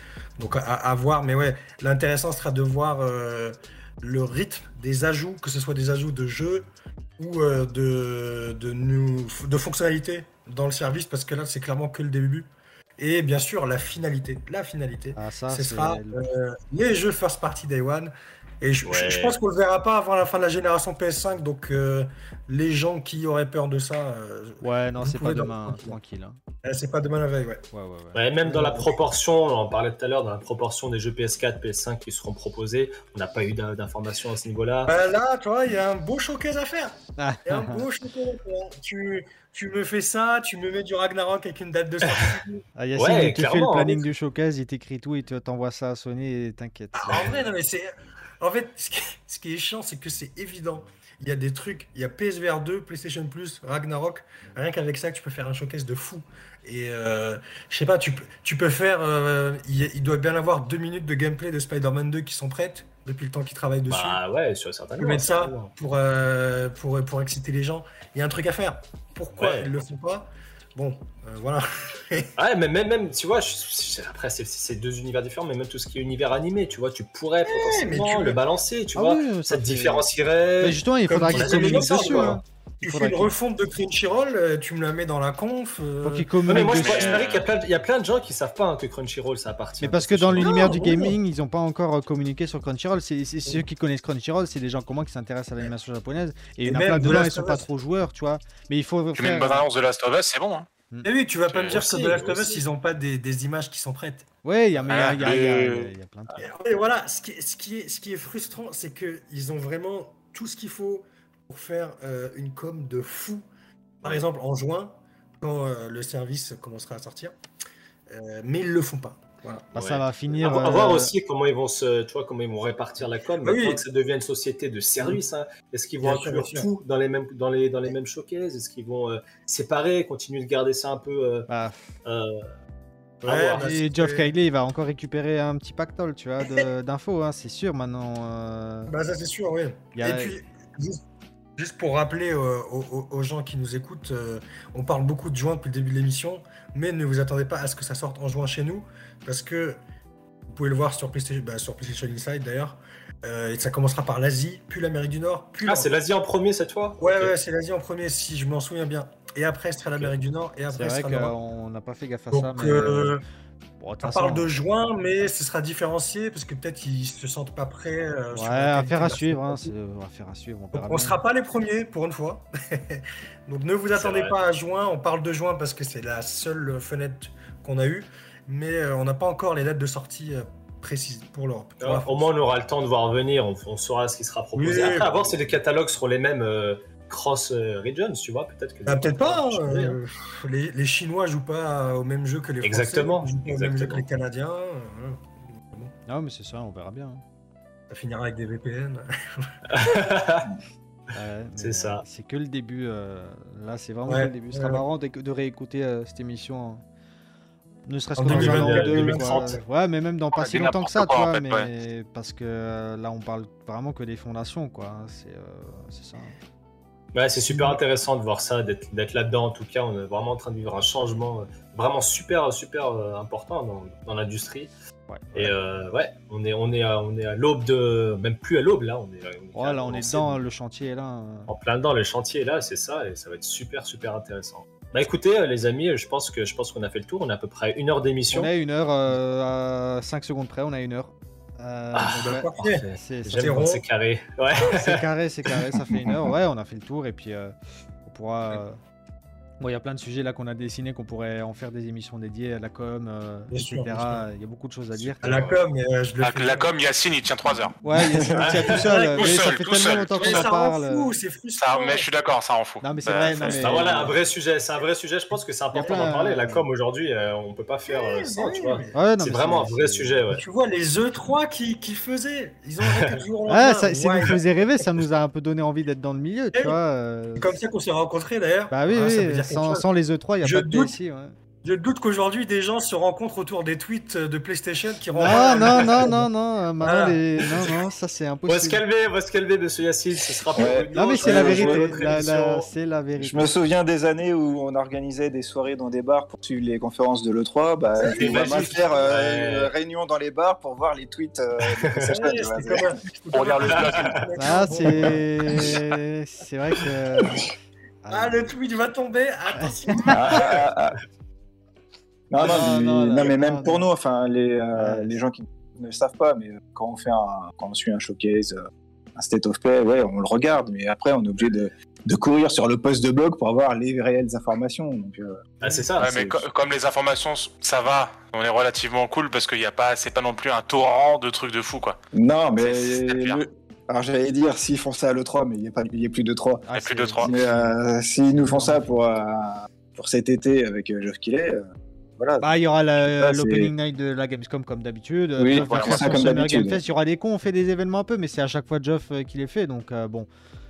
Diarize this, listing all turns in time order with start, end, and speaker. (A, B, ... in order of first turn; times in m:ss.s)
0:00.4-0:26.0 A
0:15.2-0:16.2 B
0:18.8-0:19.4 C
0:24.6-0:26.4 B
0:26.6-0:27.6 A
0:27.7-0:28.2 B
0:28.1-0:35.0 C
0:28.4-0:28.9 A
0:34.9-0:42.6 A
0:37.2-0:37.8 B
0:42.0-0:42.4 C
0:42.8-0:47.4 B
0:43.0-0:44.0 C
0:46.9-0:47.9 A
0:48.4-1:04.2 A
1:03.9-1:05.5 C
1:05.0-1:12.3 A
1:09.4-1:09.7 C
1:12.4-1:22.4 C
1:17.5-1:18.4 A
1:19.0-1:20.1 B
1:20.6-1:23.3 B
1:21.1-1:26.8 A
1:26.0-1:27.3 B
1:26.5-1:30.9 C
1:26.8-1:27.5 D
1:29.8-1:39.7 B
1:30.4-1:31.2 A
1:36.6-1:37.7 A
1:39.2-1:40.7 D
1:41.0-1:44.3 A
1:41.5-1:41.8 D
1:41.7-1:42.6 C
1:44.4-1:46.4 B
1:44.9-1:45.9 D
1:46.4-1:53.4 A
1:54.0-1:57.3 A
1:58.1-1:59.7 A
1:59.7-2:01.1 B
1:59.7-2:11.5 C
2:03.4-2:03.8 A
2:06.0-2:06.7 A
2:11.5-2:11.8 B
2:12.0-2:12.5 C
2:13.2-2:13.7 C
2:13.2-2:14.3 A
2:13.5-2:18.9 B
2:18.9-2:21.0 A
2:20.0-2:20.4 B
2:21.6-2:29.8 A
2:30.5-2:35.9 A
2:35.6-2:37.3 C
2:37.0-2:41.3 A
2:40.7-2:43.2 B
2:42.3-2:43.2 A
2:43.8-2:44.5 B
2:44.0-2:49.7 A
2:48.3-2:51.2 B
2:50.7-3:02.3 A
2:53.9-2:54.4 C
3:01.8-3:10.0 C
3:04.6-3:05.4 A
3:08.9-3:15.9 A
3:12.6-3:14.0 C
3:16.1-3:17.2 B
3:17.9-3:19.5 A
3:19.7-3:20.5 C
3:21.2-3:26.8 B
3:21.6-3:22.0 C
3:24.1-3:24.8 A
3:27.9-3:36.3 B
3:28.2-3:29.6 A
3:28.3-3:29.6 C
3:30.4-3:31.7 D
3:37.1-3:44.7 C
3:37.5-3:37.8 A
3:45.1-3:45.6 B
3:45.3-3:50.4 C
3:49.6-3:51.5 B
3:51.5-3:58.5 C
3:58.3-4:03.5 B
4:01.9-4:05.6 C
4:02.2-4:03.8 A
4:04.5-4:07.5 B
4:05.9-4:06.3 E
4:08.0-4:08.8 B
4:09.6-4:15.2 B
4:13.5-4:14.2 A
4:14.9-4:15.6 C
4:15.2-4:16.7 A
4:16.2-4:17.8 D
4:17.8-4:21.1 B
4:17.8-4:18.6 E
4:18.4-4:18.9 C
4:18.4-4:19.6 A
4:19.1-4:20.5 D
4:20.2-4:22.1 A
4:21.6-4:23.6 D
4:22.8-4:24.0 B
4:23.5-4:24.2 E
4:23.6-4:30.4 C
4:25.7-4:26.6 B
4:25.8-4:26.6 A
4:27.9-4:29.0 A
4:28.9-4:30.2 B
4:30.3-4:34.4 A
4:32.8-4:33.2 C
4:33.5-4:37.5 B
4:37.4-4:39.8 A
4:38.7-4:41.4 B
4:40.4-4:40.9 A
4:41.6-4:46.3 A
4:45.2-4:48.8 B
4:45.3-4:46.0 C
4:46.8-4:47.7 A
4:48.5-4:52.7 C
4:50.6-4:52.1 E
4:50.9-4:53.5 B
4:53.2-5:02.9 E
4:58.0-4:59.0 A
4:58.0-4:59.7 C
5:01.6-5:02.1 C
5:02.0-5:05.8 A
5:03.3-5:04.2 D
5:03.8-5:04.2 C
5:04.4-5:08.5 B
5:08.1-5:10.6 A
5:09.6-5:10.4 B
5:10.1-5:11.0 E
5:12.3-5:18.6 E
5:12.4-5:13.8 B
5:14.8-5:15.2 B
5:19.2-5:26.4 E
5:25.6-5:26.1 C
5:26.0-5:32.0 D
5:32.1-5:36.6 E
5:32.6-5:33.4 D
5:36.6-5:39.0 B
5:36.7-5:37.3 D
5:37.2-5:41.6 E
5:42.2-5:42.5 E
5:42.4-5:50.3 B
5:43.0-5:43.7 E
5:45.4-5:46.8 E
5:45.6-5:46.3 D